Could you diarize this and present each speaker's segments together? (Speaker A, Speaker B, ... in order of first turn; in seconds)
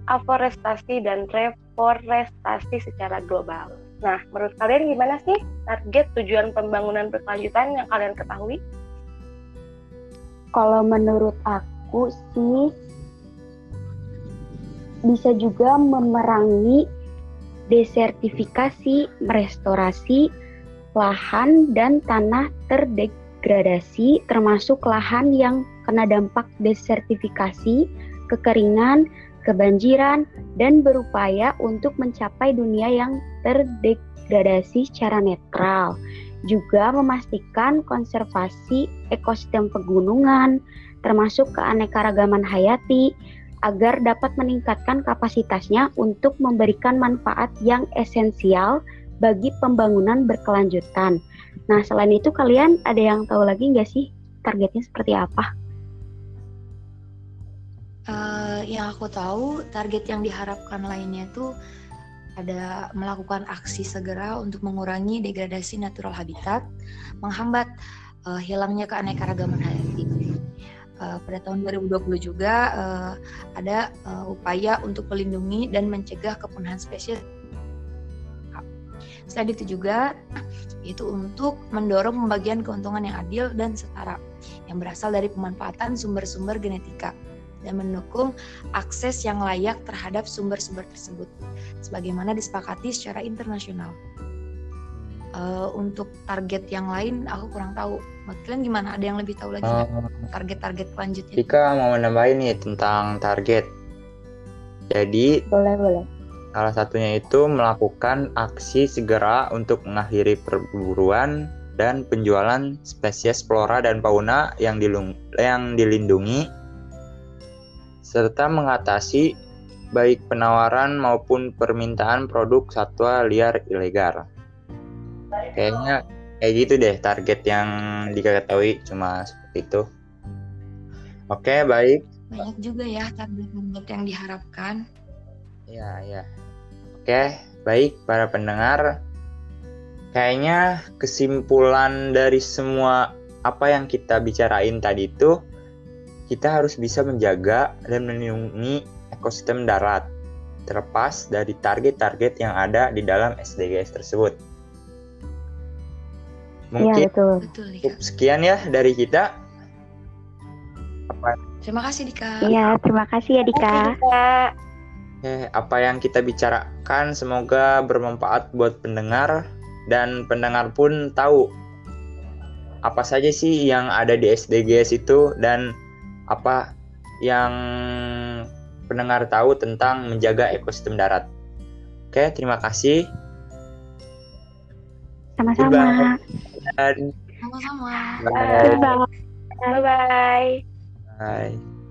Speaker A: 0.1-8.6, 164.0-164.3, 188.3-188.9, 189.6-190.6
Speaker B: 10.6-12.6, 15.1-16.8, 17.7-20.2, 20.9-36.0, 36.5-40.5, 41.0-43.0, 43.7-51.2, 51.7-55.5, 105.5-106.1, 156.8-157.4, 162.4-164.0, 185.4-186.2, 188.5-189.0
Speaker C: 58.1-61.5, 62.4-66.6, 67.2-67.7, 68.3-70.3, 71.0-77.2, 79.3-80.1, 80.8-87.1, 87.7-91.3, 91.8-94.0, 95.4-101.5, 132.3-134.8, 157.4-158.0, 161.6-162.6, 187.4-188.7
Speaker D: 94.9-95.2, 99.7-100.2, 101.4-103.7, 104.9-105.3, 106.5-116.4, 118.0-119.3, 120.0-124.2, 125.5-129.8, 131.3-132.0, 135.7-136.2, 136.9-138.9, 140.1-145.3, 146.3-150.1, 150.7-154.3, 156.7-157.1, 157.8-159.3, 161.1-161.3, 165.2-169.4, 169.9-171.4, 172.8-175.6, 176.3-176.6, 177.2-178.1, 178.9-181.2, 182.1-183.0, 185.6-187.1, 188.2-188.8, 191.1-191.6